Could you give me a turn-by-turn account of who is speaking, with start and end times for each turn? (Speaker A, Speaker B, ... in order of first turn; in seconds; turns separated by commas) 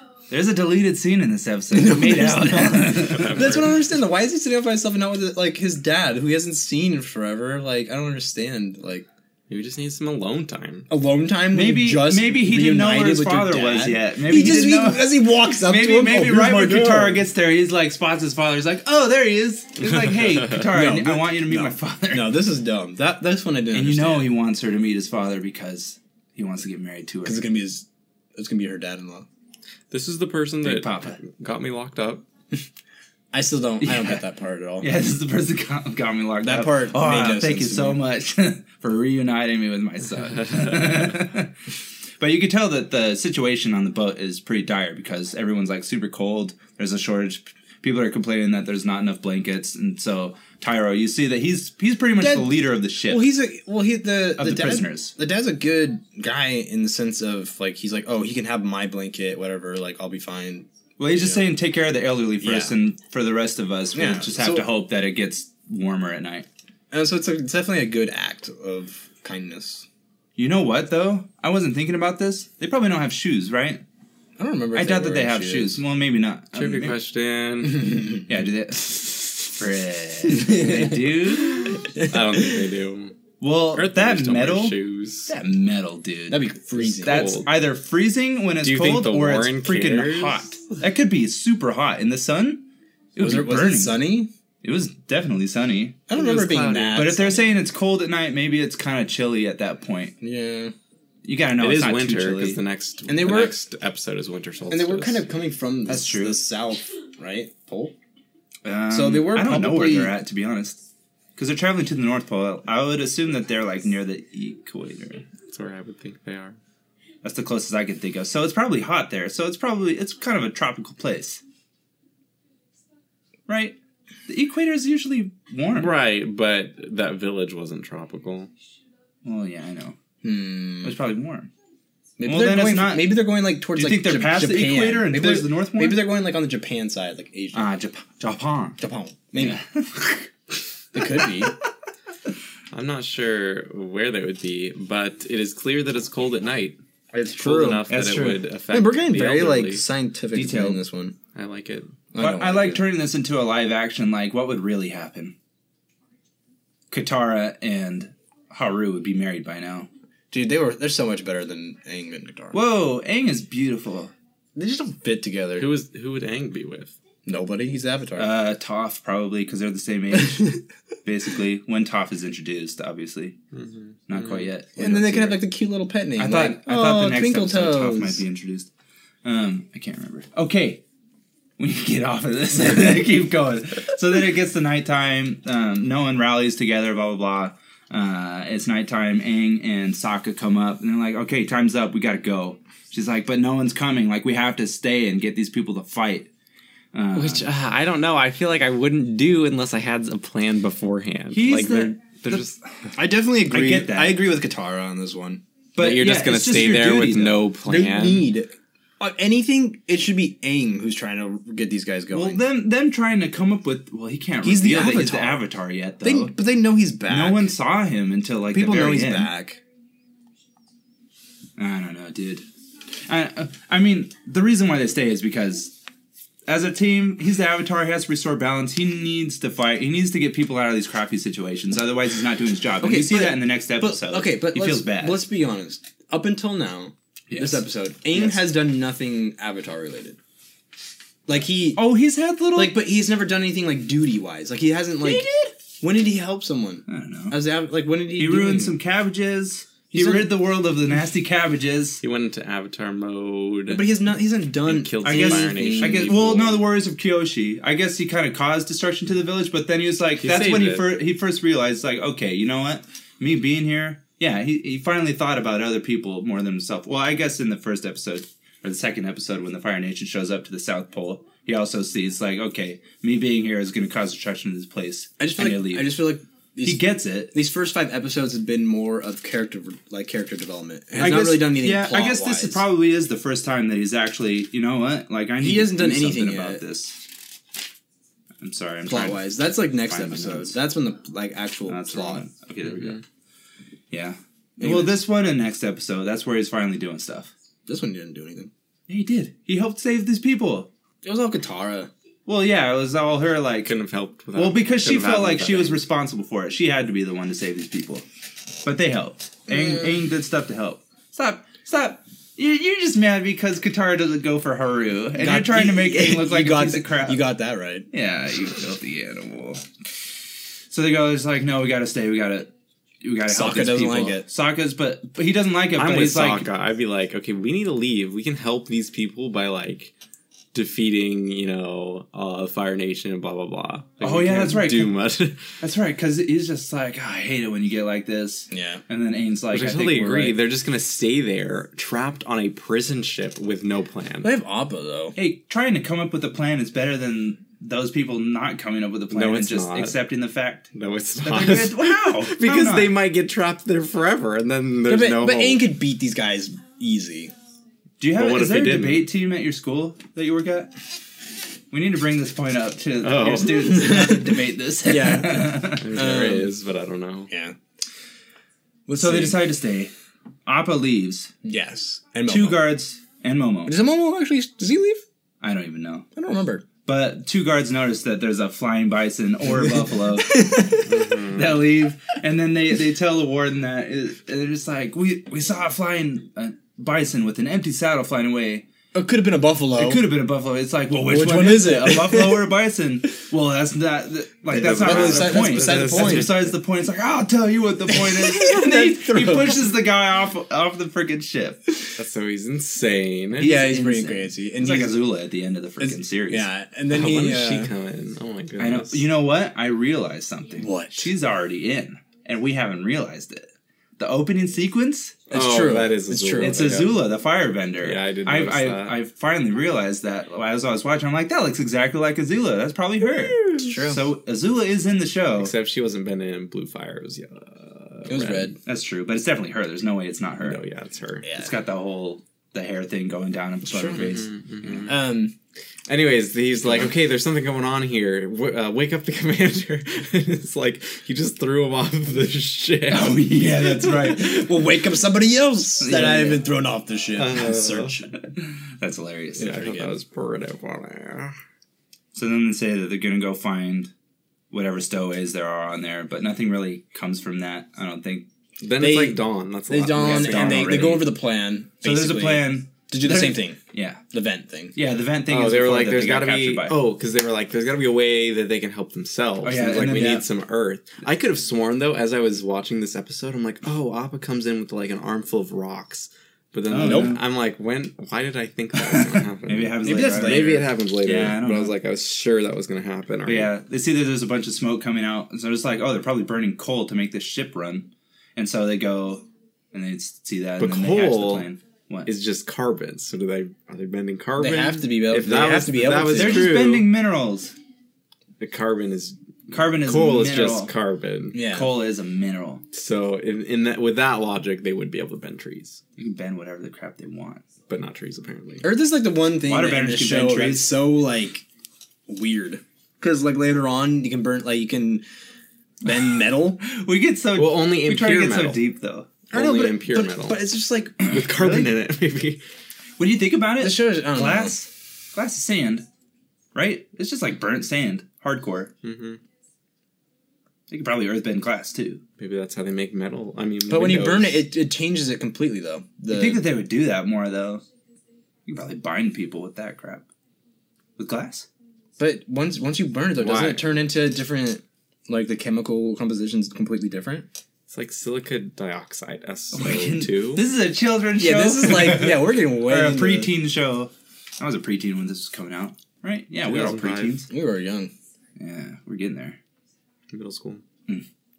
Speaker A: 0.3-3.5, Speaker B: 1.7-9.1, Speaker C: 3.0-3.8, Speaker C: 9.5-10.9, Speaker B: 10.9-17.2, Speaker A: 11.5-22.4, Speaker B: 20.6-24.3, Speaker A: 23.7-27.4, Speaker B: 27.2-29.3, Speaker C: 29.9-32.2, Speaker A: 30.6-31.2, Speaker B: 33.3-34.9, Speaker A: 33.8-34.2, Speaker A: 34.8-41.5, Speaker B: 36.4-38.0, Speaker A: 42.2-53.2, Speaker B: 52.2-52.5, Speaker B: 53.0-61.5, Speaker A: 54.4-55.1, Speaker A: 61.0-66.5, Speaker B: 62.4-62.8, Speaker B: 63.9-64.7, Speaker B: 66.9-69.9, Speaker A: 70.4-73.8, Speaker B: 74.4-75.8, Speaker A: 74.7-77.0, Speaker C: 76.5-78.0, Speaker B: 77.8-78.2, Speaker A: 78.3-81.9, Speaker B: 80.3-80.8, Speaker C: 81.9-83.2, Speaker B: 81.9-82.6, Speaker A: 83.4-86.5, Speaker C: 83.7-85.3, Speaker B: 86.3-87.3, Speaker C: 86.8-87.5, Speaker A: 87.0-94.0, Speaker C: 88.6-90.4, Speaker B: 93.2-94.3, Speaker A: 94.6-96.0, Speaker B: 96.1-97.6, Speaker C: 96.1-97.1, Speaker A: 96.9-100.1, Speaker B: 100.2-100.7, Speaker A: 101.2-102.6, Speaker C: 101.6-105.3, Speaker B: 103.0-103.5, Speaker B: 104.7-107.9, Speaker A: 105.9-106.4, Speaker A: 108.6-110.8, Speaker B: 108.9-110.2, Speaker A: 111.3-115.2, Speaker C: 115.5-116.6, Speaker A: 117.2-121.4, Speaker A: 123.5-125.9, Speaker C: 125.7-128.5, Speaker A: 129.2-129.9, Speaker B: 130.2-131.0, Speaker A: 130.8-131.5, Speaker B: 132.2-137.7, Speaker A: 132.2-133.2, Speaker A: 133.7-136.1, Speaker A: 137.5-138.8, Speaker B: 138.8-139.6, Speaker A: 139.3-140.3, Speaker B: 140.9-141.6, Speaker C: 142.7-146.8, Speaker B: 147.1-147.9, Speaker C: 147.3-149.8, Speaker A: 147.9-148.5, Speaker B: 148.7-151.1, Speaker A: 150.3-150.8, Speaker C: 151.3-152.0, Speaker B: 152.1-152.8, Speaker A: 152.2-155.3, Speaker A: 156.9-159.9, Speaker B: 160.3-162.6, Speaker A: 162.5-164.1, Speaker B: 164.6-165.7, Speaker C: 165.6-167.0, Speaker B: 167.2-168.3, Speaker A: 168.2-173.4, Speaker B: 170.1-170.4, Speaker C: 173.5-174.5, Speaker A: 174.1-175.4, Speaker B: 174.8-178.2, Speaker A: 176.2-178.7, Speaker A: 179.2-180.8, Speaker A: 181.6-196.3, Speaker A: 196.9-197.5, Speaker C: 197.1-202.6, Speaker A: 201.3-202.6, Speaker B: 202.9-205.4, Speaker A: 203.5-204.2, Speaker A: 205.8-207.5, Speaker C: 205.8-208.3, Speaker B: 207.6-212.4, Speaker A: 212.1-216.3, Speaker B: 214.4-215.4, Speaker B: 216.0-217.5, Speaker A: 217.1-219.3, Speaker B: 218.5-219.6, Speaker A: 221.6-222.4, Speaker A: 223.1-225.8, Speaker A: 226.5-235.2, Speaker B: 232.8-240.2, Speaker A: 237.3-238.4, Speaker B: 241.3-241.8, Speaker A: 241.8-242.7, Speaker B: 242.5-248.8, Speaker A: 245.0-245.5, Speaker A: 246.9-247.4, Speaker A: 248.2-252.0, Speaker B: 249.9-250.3, Speaker C: 252.0-253.9, Speaker B: 253.7-256.1, Speaker C: 254.7-256.6, Speaker A: 255.0-275.9, Speaker C: 260.2-260.9, Speaker B: 275.2-282.6, Speaker A: 276.6-277.3, Speaker A: 280.9-287.0, Speaker B: 285.4-286.6, Speaker A: 288.4-290.6, Speaker B: 288.9-292.2, Speaker A: 291.7-293.0, Speaker A: 293.9-297.3, Speaker B: 294.6-295.0, Speaker B: 297.7-298.5, Speaker A: 298.9-300.7, Speaker B: 301.0-301.9, Speaker A: 302.3-303.7, Speaker C: 303.6-305.8, Speaker A: 304.3-308.0, Speaker A: 308.6-317.2, Speaker B: 309.5-309.9, Speaker B: 315.1-317.9, Speaker A: 317.9-319.6, Speaker A: 320.7-322.5, Speaker A: 323.0-326.5, Speaker B: 323.3-324.3, Speaker C: 325.8-329.9, Speaker C: 330.5-335.5, Speaker A: 334.0-335.0, Speaker A: 335.6-340.4, Speaker B: 338.5-338.8, Speaker C: 339.5-344.3, Speaker B: 344.2-345.1, Speaker A: 345.1-350.7, Speaker C: 349.1-350.0, Speaker C: 350.7-355.7, Speaker A: 351.2-352.9, Speaker B: 354.9-357.3, Speaker A: 358.0-360.7, Speaker C: 358.1-359.1, Speaker A: 361.7-365.9, Speaker C: 363.0-363.9, Speaker B: 363.6-366.5, Speaker C: 365.7-367.3, Speaker B: 367.3-367.6, Speaker B: 368.9-369.4, Speaker A: 369.0-369.9, Speaker A: 370.4-371.3, Speaker B: 371.4-372.7, Speaker A: 372.3-373.8, Speaker B: 373.6-375.0, Speaker A: 375.4-376.1, Speaker B: 376.1-376.6, Speaker A: 376.8-388.7, Speaker B: 380.2-380.8, Speaker C: 380.8-381.6, Speaker B: 388.9-390.0, Speaker A: 389.8-401.8, Speaker B: 391.0-392.5, Speaker C: 394.5-396.5, Speaker B: 394.6-396.3, Speaker B: 397.9-399.7, Speaker C: 402.0-403.5, Speaker B: 403.4-405.0, Speaker A: 403.4-406.5, Speaker B: 405.8-407.7, Speaker C: 406.9-409.0, Speaker A: 408.6-415.2, Speaker B: 410.6-411.1, Speaker C: 415.3-417.0, Speaker B: 415.3-416.6, Speaker A: 416.4-425.5, Speaker C: 417.8-419.0, Speaker B: 423.4-424.0, Speaker C: 425.4-428.6, Speaker B: 428.1-428.6, Speaker A: 428.6-430.6, Speaker C: 430.4-431.3, Speaker B: 431.2-431.5, Speaker A: 431.3-434.9, Speaker B: 433.7-434.0, Speaker C: 433.9-434.9, Speaker B: 434.9-435.3, Speaker C: 435.9-443.3, Speaker A: 442.9-444.5, Speaker B: 444.0-448.1, Speaker A: 445.8-446.4, Speaker C: 447.1-448.0, Speaker A: 448.4-449.6, Speaker C: 449.4-451.3, Speaker B: 449.4-449.9, Speaker A: 452.1-453.9, Speaker A: 454.5-458.3, Speaker C: 458.6-461.0, Speaker B: 458.8-463.6, Speaker A: 460.0-461.1, Speaker A: 461.8-464.0, Speaker B: 464.1-464.7, Speaker A: 464.7-466.8, Speaker C: 465.3-483.5, Speaker A: 469.4-470.2, Speaker B: 469.9-470.2, Speaker A: 476.7-477.2, Speaker B: 476.8-477.1, Speaker A: 478.8-481.7, Speaker B: 479.8-480.6, Speaker A: 483.2-492.1, Speaker C: 490.6-491.5, Speaker C: 492.0-496.9, Speaker B: 494.4-496.6, Speaker A: 496.1-497.5, Speaker C: 498.4-501.4, Speaker A: 499.5-500.7, Speaker B: 501.3-501.7, Speaker A: 501.4-502.6, Speaker C: 502.7-505.8, Speaker A: 506.0-507.4, Speaker C: 507.7-508.7, Speaker B: 508.6-511.4, Speaker A: 509.4-510.7, Speaker B: 512.1-515.0, Speaker B: 515.8-516.6, Speaker A: 516.6-519.1, Speaker C: 517.3-518.6, Speaker C: 519.3-520.5, Speaker B: 519.3-521.0, Speaker A: 521.0-521.7, Speaker C: 521.0-522.4, Speaker A: 523.0-525.9, Speaker B: 523.6-524.5, Speaker A: 526.5-528.7, Speaker C: 528.8-529.2, Speaker A: 530.7-532.0, Speaker C: 532.2-534.4, Speaker B: 533.7-536.4, Speaker A: 536.1-537.6, Speaker A: 538.5-540.1, Speaker A: 541.0-541.5, Speaker B: 542.0-547.3, Speaker C: 543.2-543.7, Speaker C: 547.7-550.5, Speaker A: 549.5-557.3, Speaker B: 551.2-553.3, Speaker C: 556.4-557.2, Speaker B: 557.3-557.9, Speaker A: 558.4-559.4, Speaker C: 560.1-560.6